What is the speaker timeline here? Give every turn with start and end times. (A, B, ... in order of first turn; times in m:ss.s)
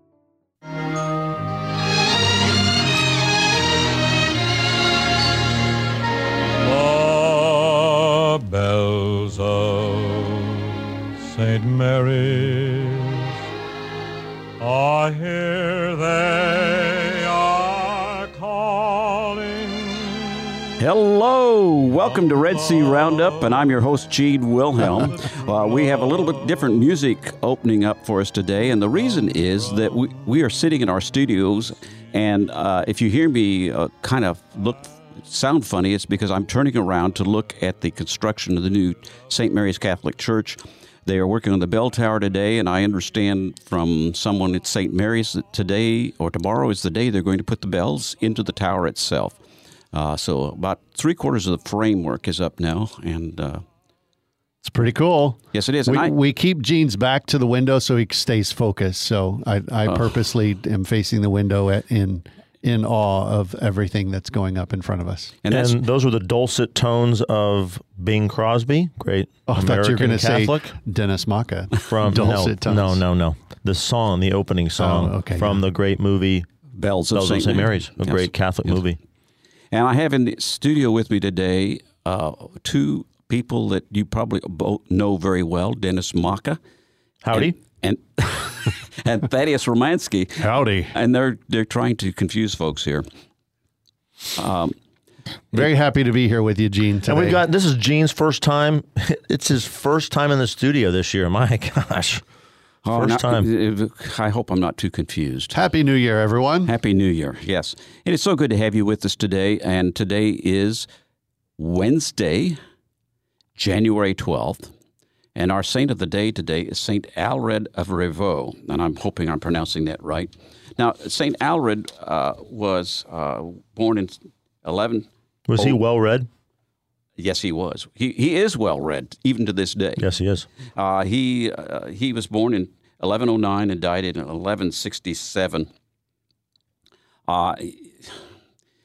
0:06.6-0:10.7 A
0:11.3-0:13.2 A
0:14.6-0:20.5 A
0:20.8-0:49.4 B
0:49.9-0:53.6 B
0:54.6-1:05.3 C
0:55.5-0:56.1 B
1:05.4-1:05.8 B
1:05.5-1:10.8 D
1:09.5-1:13.0 C
1:11.9-1:16.5 D
1:14.8-1:15.6 C
1:16.8-1:18.8 B
1:17.1-1:19.0 D
1:19.7-1:26.6 B
1:27.2-1:27.6 D
1:27.3-1:33.1 B
1:30.4-1:31.0 C
1:34.4-1:34.7 B
1:35.5-1:37.4 C
1:37.1-1:42.2 D
1:42.8-1:45.6 B
1:42.9-1:43.5 D
1:45.5-1:46.7 C
1:46.7-1:50.9 B
1:51.6-1:52.6 B
1:53.6-1:54.7 B
1:55.4-2:05.1 B
2:05.5-2:06.3 D
2:07.2-2:10.0 B
2:10.0-2:10.5 D
2:10.8-2:15.7 B
2:17.3-2:18.2 B